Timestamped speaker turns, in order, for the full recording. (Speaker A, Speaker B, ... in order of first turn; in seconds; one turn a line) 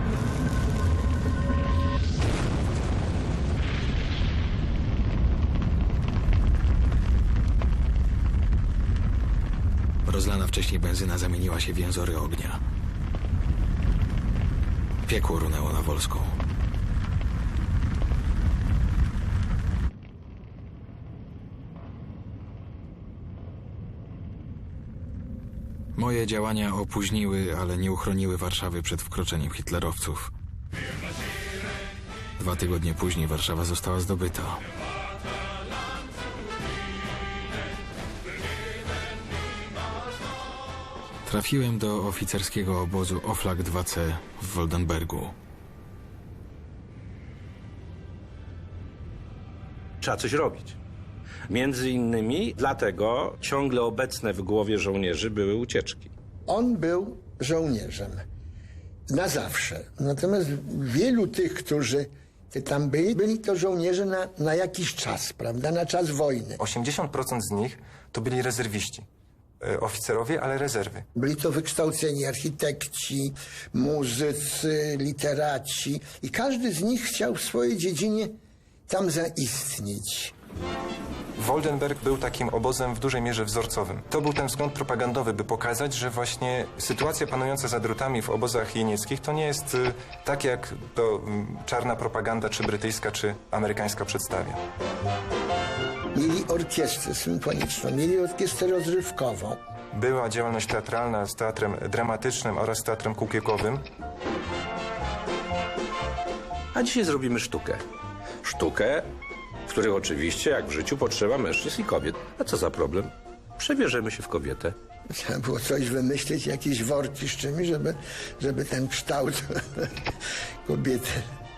Speaker A: 10.1-12.6
Speaker A: 15.1-16.4
Speaker A: 25.9-30.3
Speaker A: 32.4-34.7
Speaker A: 41.3-45.4
Speaker B: 50.0-50.8
Speaker B: 51.5-56.1
Speaker C: 56.5-58.2
Speaker C: 59.1-66.6
Speaker D: 66.6-69.1
Speaker D: 69.6-71.1
Speaker C: 71.2-80.3
Speaker D: 81.4-94.6
Speaker C: 96.1-99.6
Speaker D: 99.9-103.8
Speaker B: 106.7-107.8
Speaker B: 108.4-109.1
Speaker B: 109.7-114.8
Speaker C: 115.1-120.0
Speaker C: 120.7-121.3